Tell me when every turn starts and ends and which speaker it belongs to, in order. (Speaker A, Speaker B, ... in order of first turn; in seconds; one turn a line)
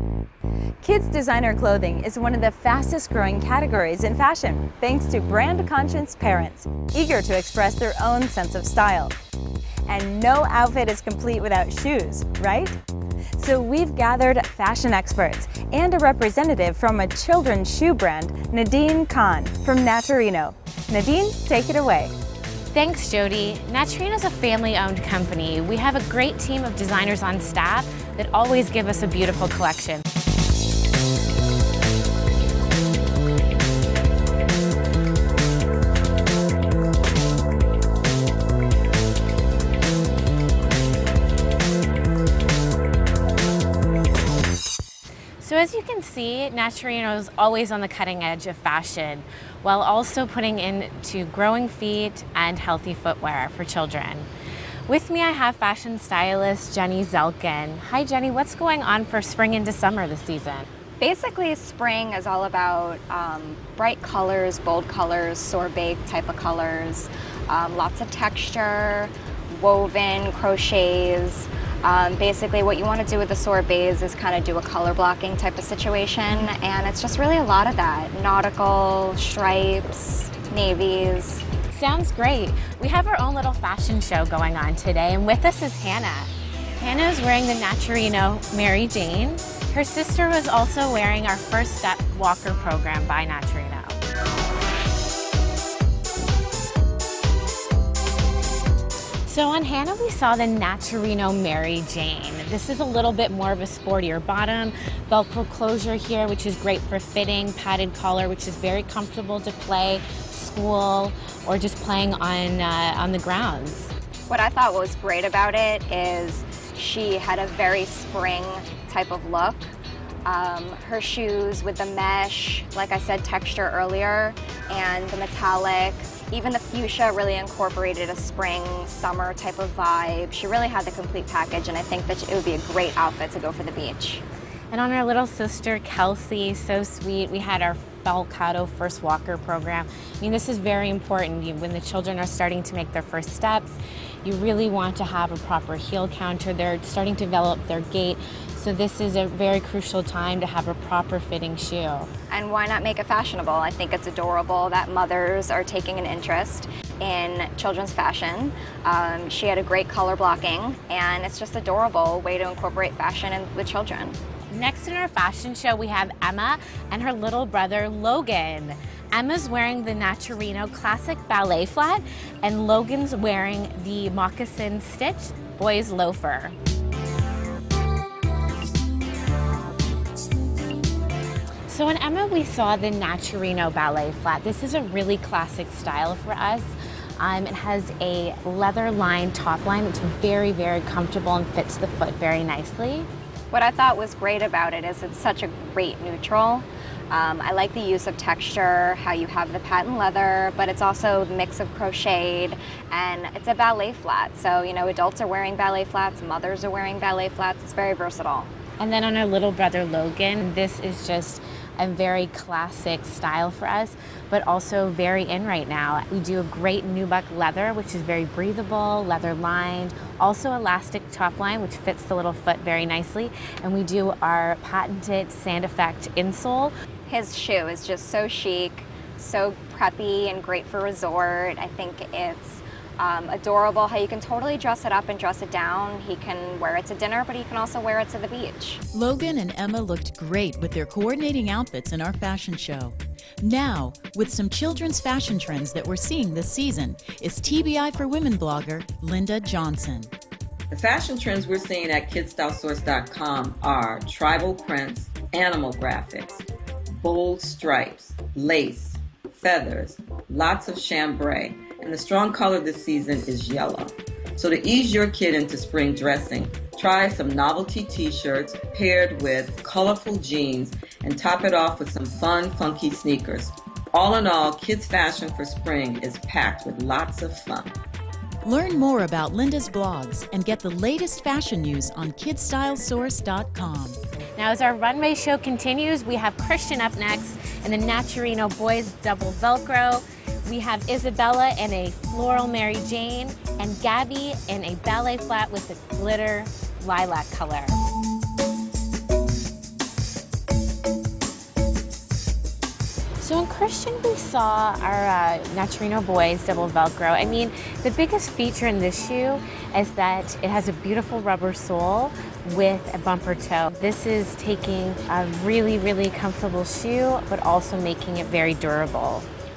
Speaker A: 0.8-9.2
Speaker A: 9.9-12.8
Speaker A: 13.4-22.1
Speaker B: 22.7-30.0
Speaker B: 45.4-54.3
Speaker B: 54.9-60.7
Speaker C: 61.0-81.4
Speaker B: 81.7-94.0
Speaker B: 99.2-113.9
Speaker C: 114.3-119.7
Speaker C: 120.3-134.2
Speaker B: 134.7-152.1
Speaker C: 152.3-164.2
Speaker B: 164.5-176.6
Speaker B: 181.7-193.1
Speaker C: 193.5-208.5
Speaker B: 208.8-226.7
Speaker C: 227.1-238.8
Speaker D: 238.9-250.1
Speaker E: 250.7-277.8
Speaker D: 278.4-284.0
Speaker B: 284.4-297.8
Speaker B: 303.2-319.3